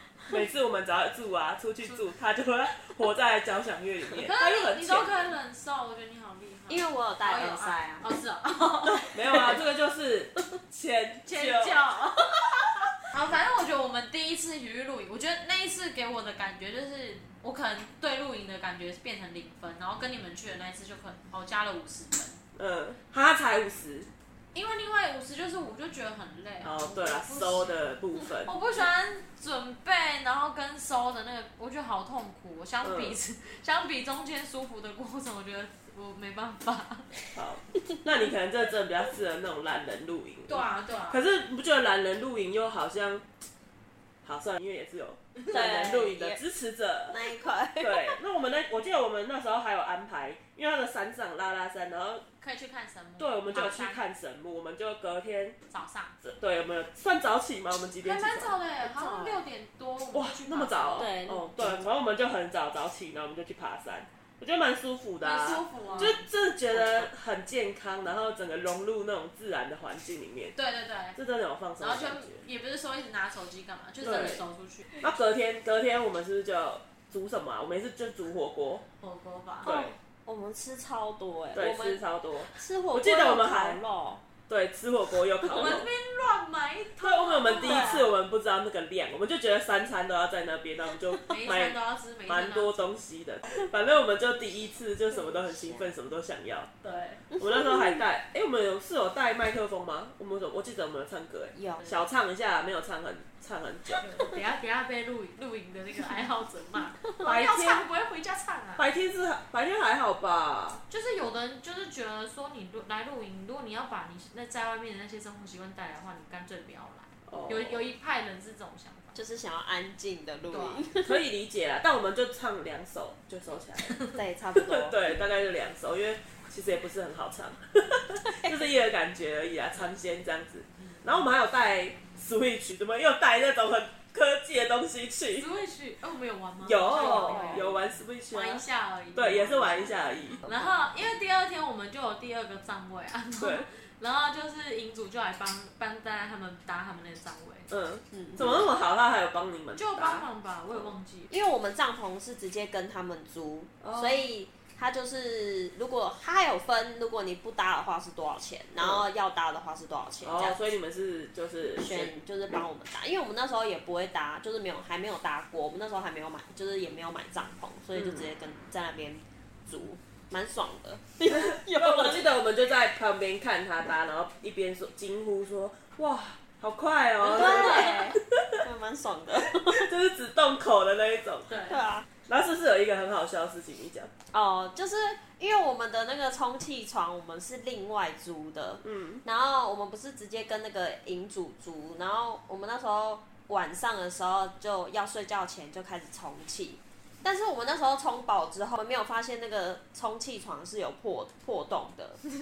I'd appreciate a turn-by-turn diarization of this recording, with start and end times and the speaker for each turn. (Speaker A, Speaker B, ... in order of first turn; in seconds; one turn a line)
Speaker A: 0.2-5.1
Speaker B: 4.2-9.4
Speaker C: 6.7-8.0
Speaker A: 9.0-11.8
Speaker B: 11.2-12.3
Speaker B: 13.1-22.4
Speaker A: 22.6-24.1
Speaker B: 24.5-27.8
Speaker A: 26.6-28.5
Speaker B: 28.4-37.1
Speaker A: 32.8-33.2
Speaker A: 37.3-43.2
Speaker B: 40.5-41.2
Speaker A: 44.2-47.2
Speaker C: 45.5-46.4
Speaker C: 47.1-48.2
Speaker A: 47.8-52.2
Speaker B: 52.4-54.0
Speaker A: 53.2-55.6
Speaker B: 55.7-56.1
Speaker A: 56.2-58.6
Speaker B: 58.0-61.1
Speaker C: 58.8-59.4
Speaker A: 60.1-70.5
Speaker C: 61.0-61.5
Speaker B: 65.2-66.2
Speaker C: 66.7-67.1
Speaker B: 70.5-71.2
Speaker A: 71.1-72.4
Speaker B: 71.8-74.9
Speaker A: 74.0-74.4
Speaker A: 75.0-78.8
Speaker B: 79.0-79.7
Speaker A: 79.6-79.9
Speaker C: 79.6-82.0
Speaker A: 81.5-83.8
Speaker C: 82.5-84.2
Speaker A: 84.5-85.9
Speaker B: 85.4-88.1
Speaker A: 87.0-96.7
Speaker C: 87.6-88.0
Speaker B: 91.3-92.9
Speaker B: 96.8-97.2
Speaker C: 97.3-98.0
Speaker A: 97.4-104.0
Speaker C: 101.5-101.9
Speaker B: 104.0-108.8
Speaker A: 107.2-107.8
Speaker A: 108.8-110.8
Speaker B: 110.9-119.1
Speaker A: 117.3-117.8
Speaker C: 119.1-121.2
Speaker B: 120.5-120.9
Speaker A: 121.0-135.5
Speaker C: 124.1-125.0
Speaker B: 135.4-147.7
Speaker A: 136.6-140.4
Speaker C: 136.9-137.8
Speaker C: 140.4-140.7
Speaker A: 143.4-143.7
Speaker A: 147.7-150.2
Speaker C: 148.1-148.4
Speaker B: 149.8-151.3
Speaker C: 151.3-160.6
Speaker A: 153.8-154.3
Speaker A: 160.2-162.1
Speaker C: 161.8-172.3
Speaker A: 171.3-178.6
Speaker C: 177.2-179.9
Speaker B: 177.3-178.0
Speaker A: 179.5-181.5
Speaker B: 181.5-181.8
Speaker C: 181.7-182.1
Speaker A: 182.2-184.1
Speaker C: 184.3-202.2
Speaker A: 188.8-189.2